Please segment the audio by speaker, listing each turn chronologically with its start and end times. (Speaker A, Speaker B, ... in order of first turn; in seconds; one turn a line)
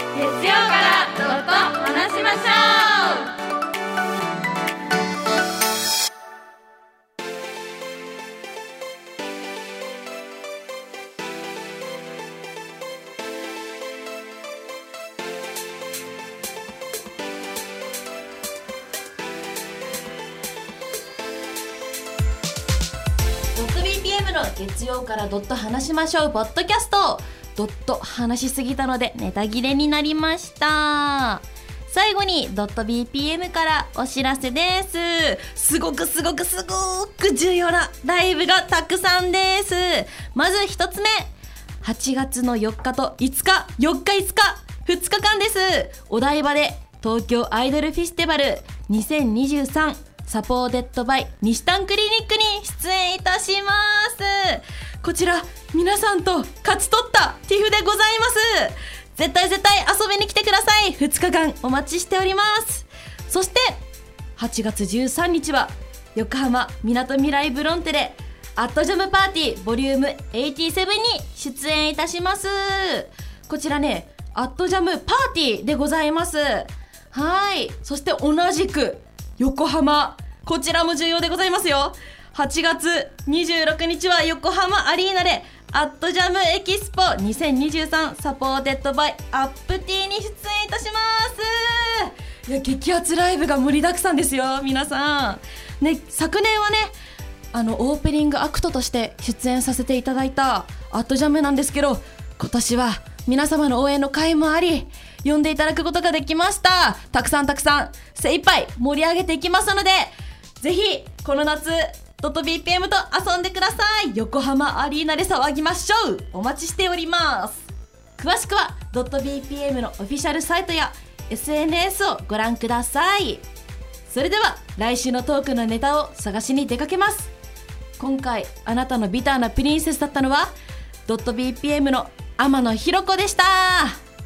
Speaker A: 0.1-3.3
Speaker A: 23.6-41.3
Speaker A: 41.8-63.8
Speaker A: 64.4-96.9
Speaker A: 97.5-117.7
Speaker A: 118.2-123.4
Speaker A: 124.1-127.3
Speaker A: 128.0-130.5
Speaker A: 131.1-134.0